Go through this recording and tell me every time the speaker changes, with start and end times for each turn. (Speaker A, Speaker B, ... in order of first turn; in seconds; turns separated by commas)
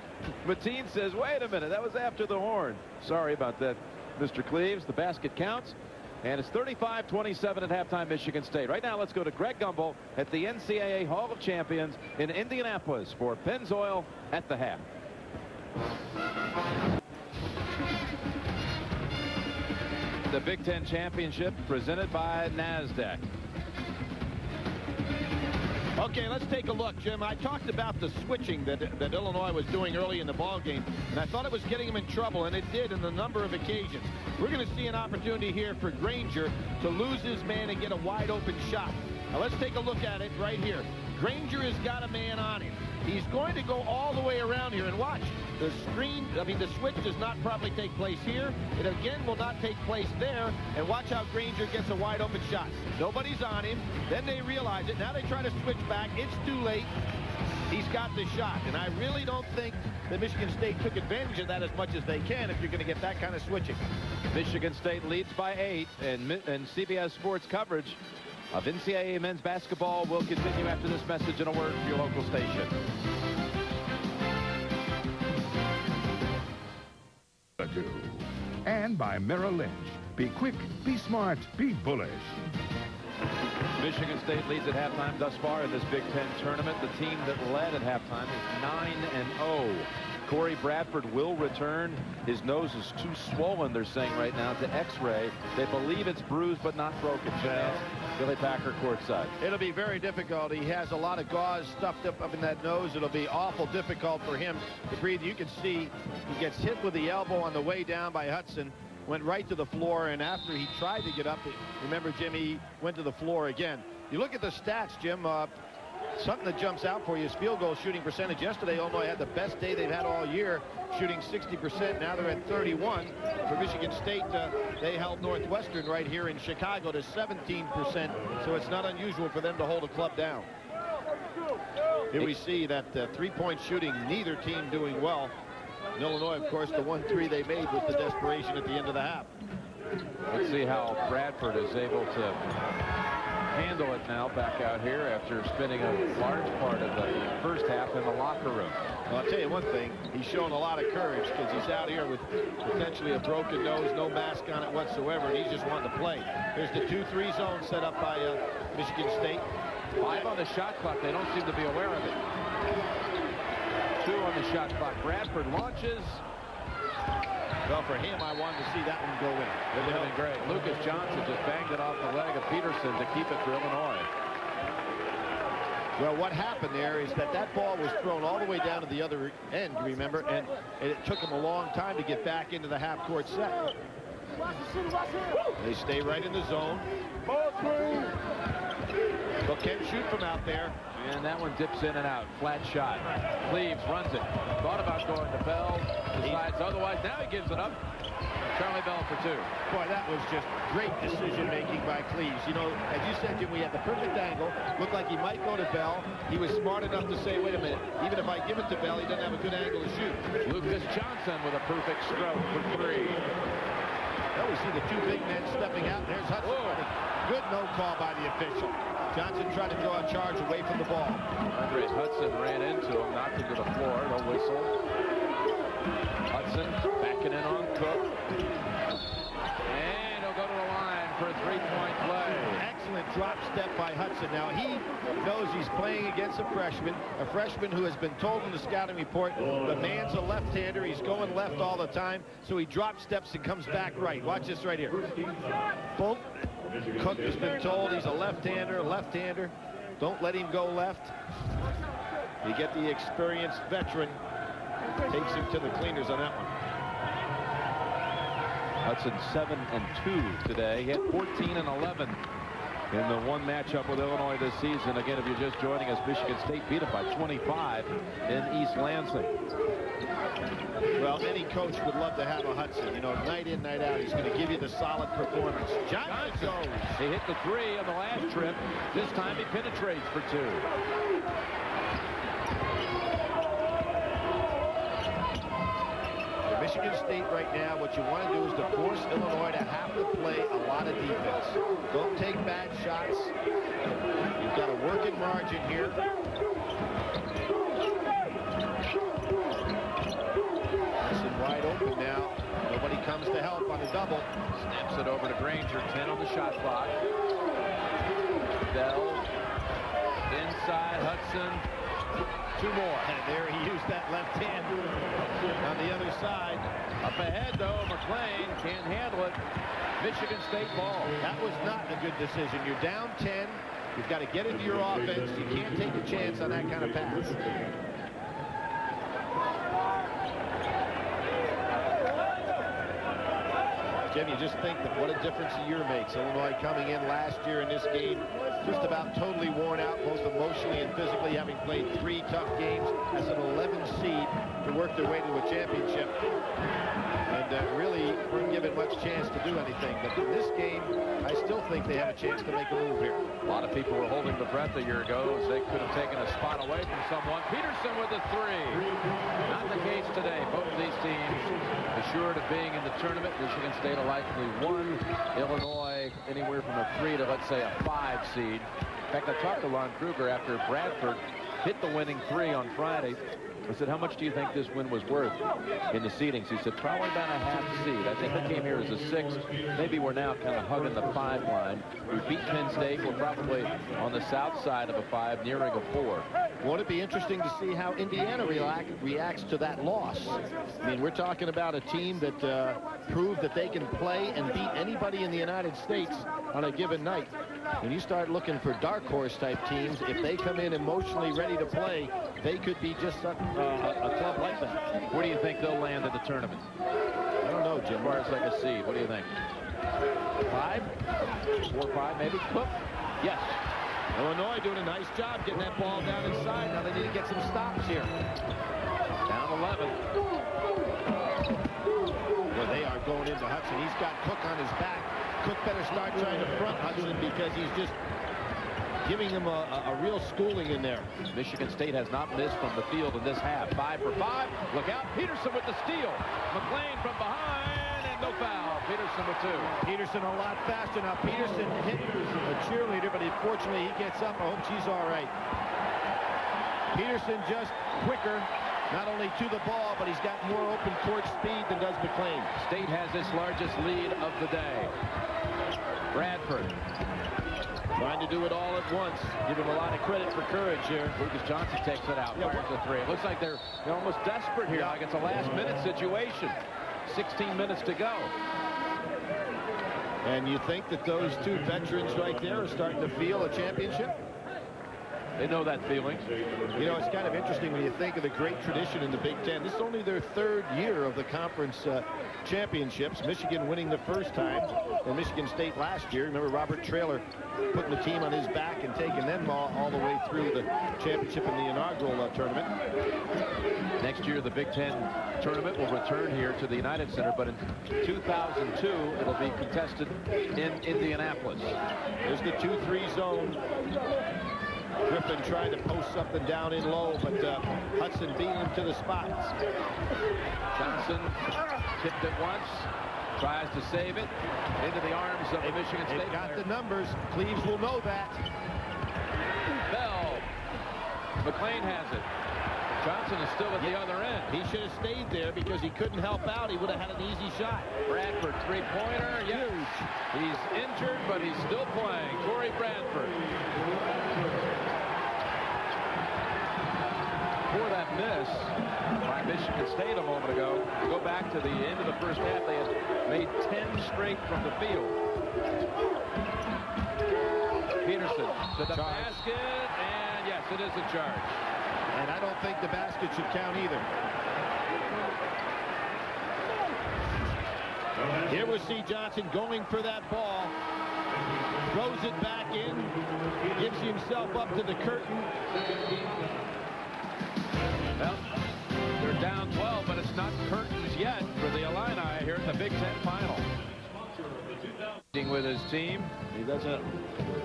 Speaker A: 0.4-14.8, Speaker A: 20.3-23.2, Speaker B: 26.0-56.9, Speaker B: 57.7-63.8, Speaker A: 64.3-68.0, Speaker A: 68.5-72.8, Speaker C: 77.6-82.4, Speaker A: 83.8-99.3, Speaker B: 97.4-97.8, Speaker B: 99.4-115.6, Speaker B: 116.2-130.5, Speaker B: 132.1-135.3, Speaker B: 136.0-139.3, Speaker A: 140.3-142.4, Speaker A: 143.5-148.8, Speaker B: 149.1-159.5, Speaker A: 160.0-162.2, Speaker A: 164.0-166.2, Speaker B: 167.7-170.2, Speaker A: 169.7-174.1, Speaker B: 176.0-183.7, Speaker B: 185.6-186.9, Speaker B: 189.4-190.8, Speaker A: 190.9-197.8, Speaker B: 196.2-196.4, Speaker A: 198.5-199.5, Speaker B: 199.7-210.3, Speaker A: 210.4-213.2, Speaker B: 214.3-221.3, Speaker A: 216.4-216.8, Speaker A: 221.5-224.7, Speaker A: 226.3-228.1, Speaker A: 229.7-232.6, Speaker B: 232.5-245.1, Speaker B: 246.0-251.1, Speaker B: 252.4-254.2, Speaker B: 255.1-256.6, Speaker A: 258.8-262.2, Speaker A: 262.9-269.4, Speaker B: 271.0-277.0, Speaker A: 276.1-280.7, Speaker B: 286.4-293.3, Speaker B: 294.4-296.0, Speaker B: 301.0-304.3, Speaker A: 304.5-307.0, Speaker A: 308.7-309.3, Speaker A: 310.3-311.6, Speaker A: 312.6-313.1, Speaker B: 313.0-314.9, Speaker B: 315.6-316.7, Speaker A: 317.0-319.4, Speaker A: 320.0-321.1, Speaker B: 321.2-327.7, Speaker B: 334.1-346.2, Speaker B: 347.3-353.3, Speaker A: 353.4-358.9, Speaker A: 359.5-386.3, Speaker B: 386.6-404.8, Speaker A: 405.1-406.7, Speaker B: 407.4-408.3, Speaker A: 408.0-409.4, Speaker A: 410.5-410.9, Speaker A: 411.6-413.6, Speaker B: 414.1-418.2, Speaker A: 419.3-420.0, Speaker B: 422.5-428.0, Speaker B: 429.0-431.1, Speaker A: 431.3-439.8, Speaker B: 439.8-445.3, Speaker B: 446.9-452.5, Speaker A: 452.6-455.0, Speaker A: 456.1-456.8, Speaker B: 458.0-461.2, Speaker A: 461.1-468.3, Speaker B: 462.4-462.6, Speaker B: 464.7-465.0, Speaker B: 470.2-474.2, Speaker A: 475.4-476.3, Speaker B: 476.8-492.7, Speaker A: 494.0-501.8, Speaker B: 502.2-503.6, Speaker B: 505.1-509.6, Speaker A: 510.8-511.4, Speaker A: 512.0-516.7, Speaker B: 515.6-518.4, Speaker A: 519.9-520.5, Speaker A: 521.4-522.3, Speaker A: 523.0-524.6, Speaker B: 523.8-527.9, Speaker A: 528.1-533.4, Speaker B: 529.4-530.1, Speaker A: 537.7-545.2, Speaker A: 548.0-551.6, Speaker B: 548.9-549.4, Speaker B: 552.1-554.1, Speaker B: 558.5-560.8, Speaker B: 561.9-563.2, Speaker B: 563.7-565.5, Speaker A: 568.2-568.5, Speaker A: 569.2-573.7, Speaker A: 575.3-576.3, Speaker B: 576.5-577.1